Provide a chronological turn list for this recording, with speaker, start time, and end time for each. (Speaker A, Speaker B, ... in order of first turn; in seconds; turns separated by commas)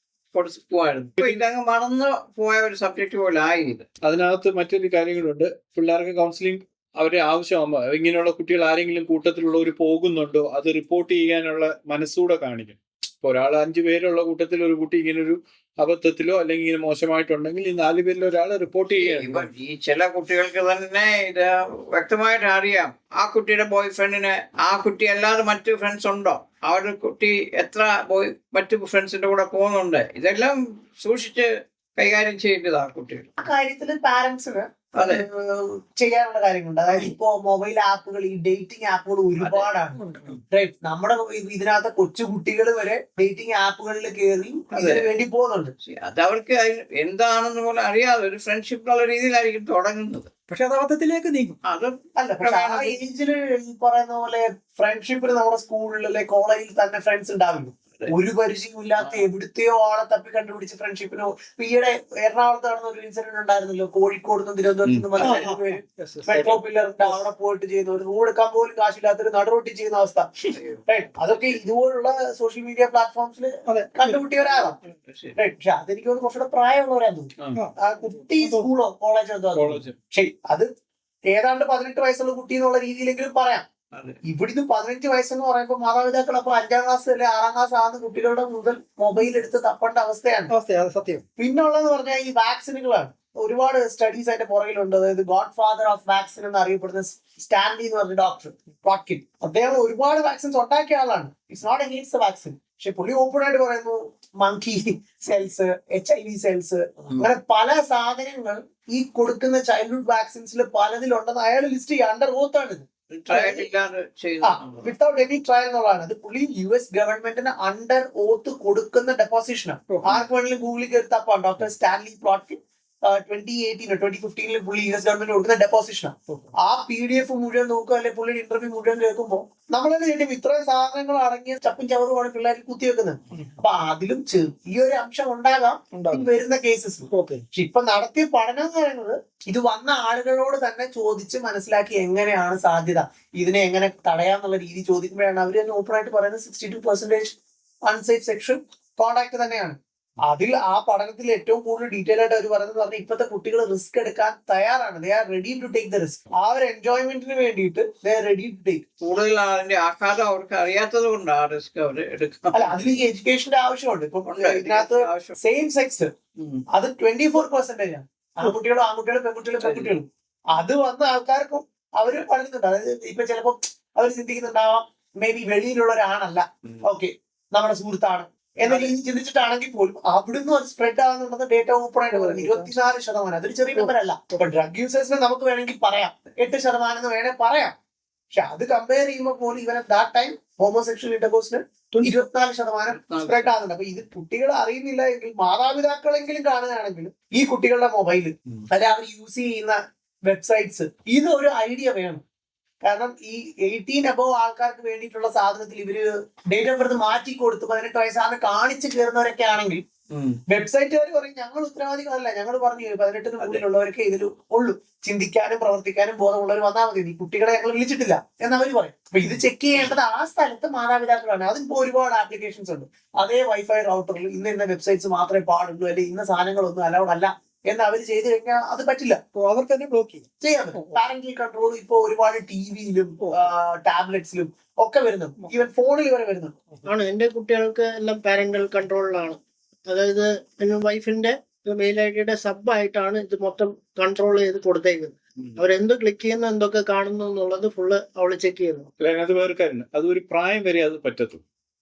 Speaker A: 0.3-3.8, Speaker B: 4.0-19.5, Speaker A: 19.0-33.3, Speaker C: 33.4-40.0, Speaker A: 35.0-35.2, Speaker A: 39.4-39.7, Speaker D: 40.0-40.4, Speaker C: 40.5-45.7, Speaker A: 44.7-45.1, Speaker A: 45.8-50.3, Speaker D: 50.5-51.6, Speaker A: 51.6-53.0, Speaker C: 52.2-70.3, Speaker A: 59.0-59.3, Speaker D: 65.2-66.5, Speaker A: 70.5-71.6, Speaker C: 70.9-74.8, Speaker D: 73.7-74.2, Speaker A: 74.4-75.4, Speaker C: 75.4-80.7, Speaker D: 78.4-78.7, Speaker B: 79.5-80.0, Speaker C: 81.3-83.7, Speaker A: 83.9-84.2, Speaker C: 84.2-90.5, Speaker D: 90.5-91.2, Speaker C: 91.4-113.7, Speaker A: 113.1-114.9, Speaker C: 114.4-147.4, Speaker D: 119.9-120.2, Speaker D: 135.9-136.3, Speaker D: 137.1-137.4, Speaker C: 147.9-158.8, Speaker A: 159.0-162.8, Speaker C: 162.5-166.1, Speaker A: 164.3-165.4, Speaker A: 166.4-166.6, Speaker C: 166.7-187.7, Speaker A: 169.6-169.9, Speaker A: 178.7-178.9, Speaker D: 182.1-182.8, Speaker C: 188.3-202.2, Speaker D: 191.9-192.2, Speaker A: 192.9-193.6, Speaker C: 202.8-209.8, Speaker A: 210.1-210.4, Speaker C: 210.5-229.2, Speaker D: 229.3-231.1, Speaker C: 230.4-236.6, Speaker D: 233.2-233.5, Speaker E: 236.8-248.9, Speaker B: 249.0-251.4